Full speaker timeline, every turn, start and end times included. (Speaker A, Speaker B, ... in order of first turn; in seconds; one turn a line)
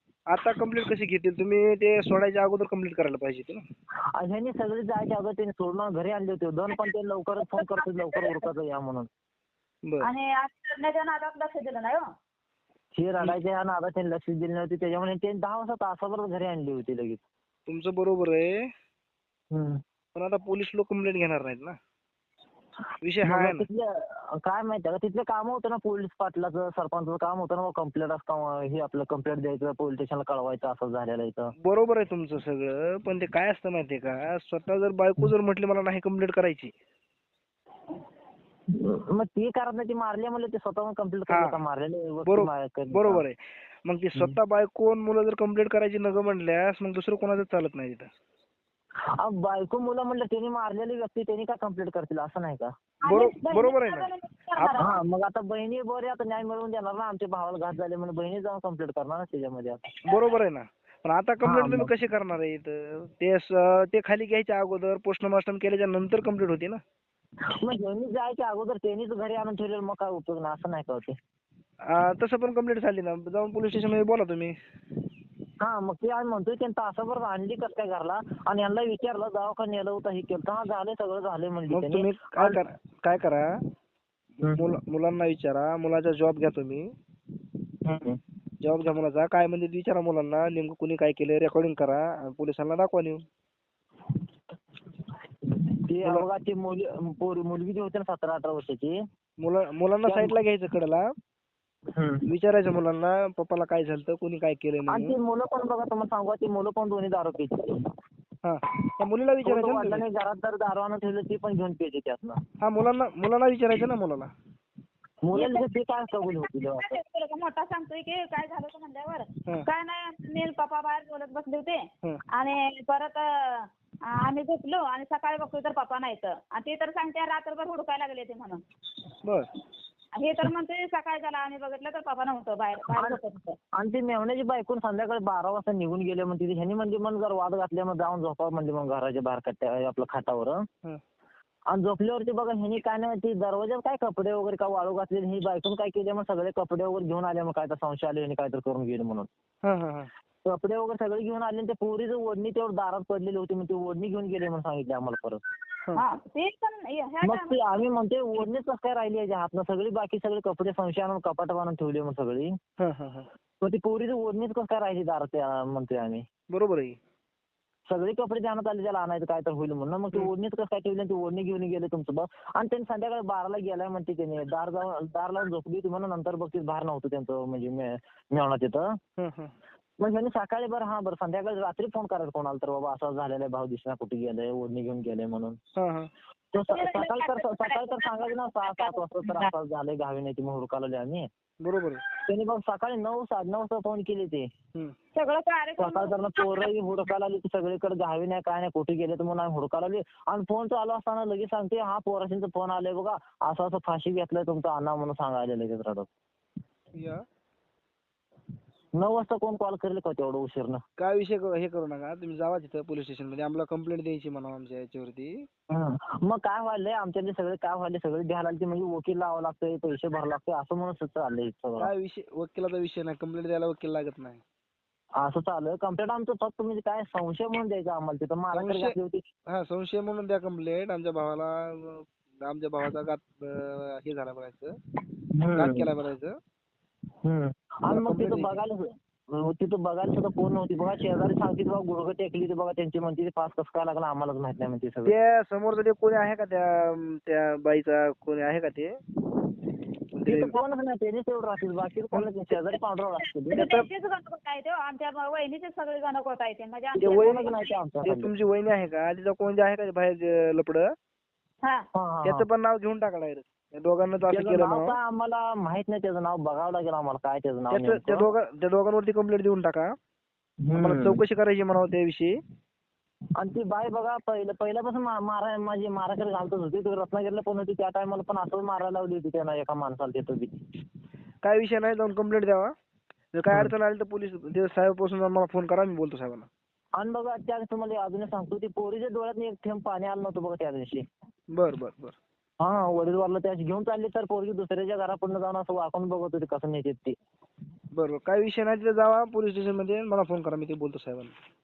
Speaker A: 0.3-3.6
Speaker B: 4.1-9.1
Speaker C: 7.5-8.3
Speaker C: 10.0-12.1
Speaker B: 12.9-17.2
Speaker A: 17.7-18.7
Speaker B: 19.5-19.8
Speaker A: 20.1-21.8
Speaker A: 23.0-23.6
Speaker B: 23.2-31.5
Speaker A: 31.6-36.7
Speaker B: 38.7-43.2
Speaker A: 41.3-41.6
Speaker A: 42.2-48.1
Speaker B: 49.1-52.7
Speaker C: 53.0-55.0
Speaker A: 53.1-54.8
Speaker B: 54.8-59.8
Speaker A: 60.0-66.8
Speaker B: 61.4-61.9
Speaker B: 67.6-71.2
Speaker A: 71.9-74.5
Speaker B: 75.6-82.6
Speaker A: 81.7-83.5
Speaker A: 84.4-86.9
Speaker B: 87.8-88.2
Speaker A: 88.6-93.2
Speaker B: 95.5-99.0
Speaker A: 99.4-101.0
Speaker B: 100.0-100.3
Speaker B: 101.9-102.2
Speaker A: 102.2-105.2
Speaker B: 104.9-107.8
Speaker A: 108.4-110.0
Speaker B: 109.4-112.4
Speaker A: 112.6-114.3
Speaker B: 115.2-117.0
Speaker C: 115.3-128.6
Speaker A: 129.2-129.5
Speaker C: 130.2-133.6
Speaker B: 132.9-133.2
Speaker B: 133.7-140.6
Speaker B: 141.7-149.3
Speaker A: 149.6-150.1
Speaker B: 150.4-155.4
Speaker C: 155.9-157.7
Speaker B: 157.2-162.6
Speaker A: 162.8-163.3
Speaker B: 163.6-166.2
Speaker A: 166.5-167.0
Speaker B: 167.9-179.0
Speaker A: 179.2-179.5
Speaker B: 180.0-185.6
Speaker A: 185.8-186.1
Speaker B: 186.5-191.3
Speaker C: 186.7-189.5
Speaker A: 191.6-192.0
Speaker B: 192.2-194.5
Speaker C: 195.1-196.7
Speaker B: 195.8-206.1
Speaker A: 206.9-207.2
Speaker B: 209.0-210.8
Speaker A: 211.0-215.4
Speaker B: 215.7-221.9
Speaker A: 221.8-224.4
Speaker B: 225.2-229.2
Speaker A: 228.5-228.9
Speaker A: 229.5-234.7
Speaker B: 235.3-235.9
Speaker A: 235.5-236.4
Speaker B: 237.2-245.1
Speaker A: 237.9-238.5
Speaker A: 245.1-249.0
Speaker A: 250.1-250.6
Speaker B: 250.2-253.6
Speaker A: 252.1-252.6
Speaker C: 253.5-257.5
Speaker A: 253.5-253.8
Speaker B: 257.0-258.3
Speaker A: 257.0-257.5
Speaker A: 258.0-260.9
Speaker C: 261.6-261.9
Speaker B: 261.9-262.5
Speaker A: 262.2-264.9
Speaker B: 264.3-268.3
Speaker A: 267.7-269.9
Speaker B: 270.6-271.2
Speaker A: 270.8-272.4
Speaker B: 273.4-280.6
Speaker A: 281.4-282.7
Speaker A: 283.3-286.5
Speaker B: 287.0-291.0
Speaker A: 291.5-292.1
Speaker B: 292.6-297.2
Speaker A: 297.9-301.3